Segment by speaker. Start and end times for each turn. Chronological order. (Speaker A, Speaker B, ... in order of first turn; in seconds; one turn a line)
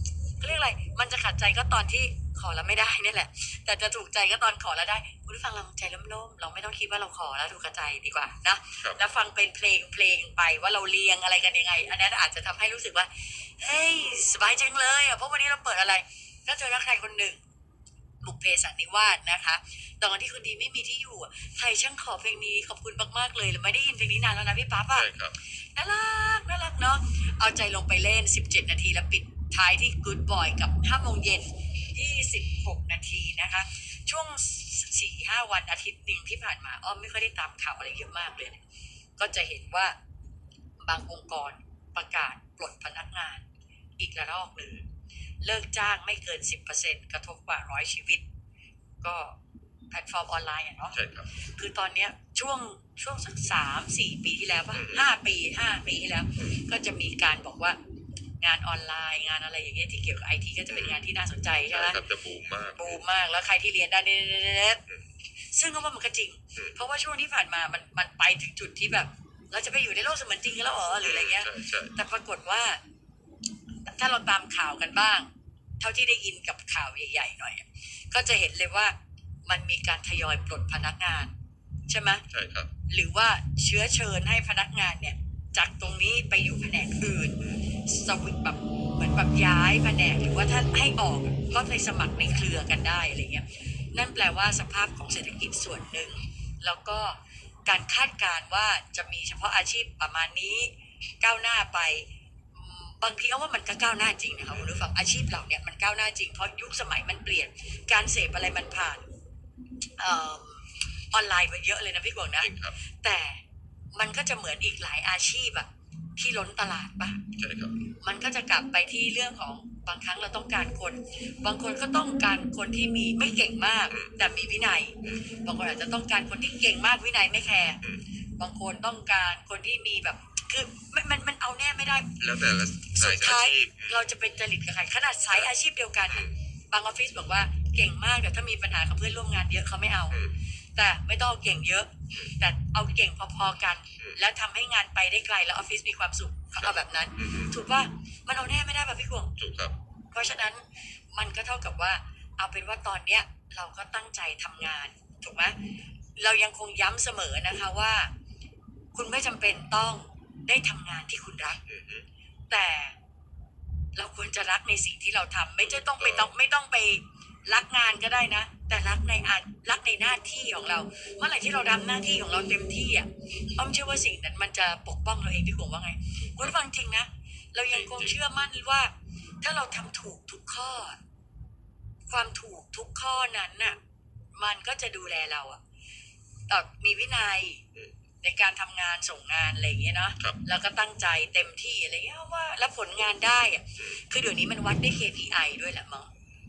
Speaker A: 0.4-17.4
Speaker A: 18.2-25.1
Speaker B: 24.9-25.4
Speaker A: 25.7-38.6
Speaker A: 39.2-39.9
Speaker A: 40.8-43.5
Speaker A: 44.0-44.8
Speaker A: 45.4-48.2
Speaker A: 49.0-49.4
Speaker A: 49.9-57.8
Speaker B: 50.9-51.3
Speaker B: 54.7-55.1
Speaker A: 58.4-62.0
Speaker B: 60.7-61.0
Speaker B: 61.7-63.0
Speaker A: 62.8-64.8
Speaker A: 65.5-72.8
Speaker B: 71.0-72.0
Speaker A: 73.8-75.3
Speaker A: 75.8-81.3
Speaker A: 81.9-82.2
Speaker B: 82.3-82.7
Speaker A: 82.9-109.0
Speaker B: 87.4-87.6
Speaker B: 104.5-104.8
Speaker A: 110.0-113.4
Speaker B: 112.4-112.8
Speaker A: 113.9-117.2
Speaker B: 117.3-117.7
Speaker A: 118.0-127.8
Speaker A: 128.4-132.2
Speaker B: 132.2-134.0
Speaker A: 132.9-140.2
Speaker A: 140.7-149.3
Speaker B: 146.6-147.5
Speaker B: 149.4-149.8
Speaker A: 150.1-155.6
Speaker A: 156.2-158.1
Speaker A: 158.9-161.6
Speaker B: 161.7-162.1
Speaker A: 162.5-162.9
Speaker A: 163.9-181.0
Speaker B: 165.6-166.3
Speaker B: 177.7-178.2
Speaker A: 182.1-183.8
Speaker A: 184.3-185.6
Speaker A: 186.5-187.6
Speaker A: 188.2-196.1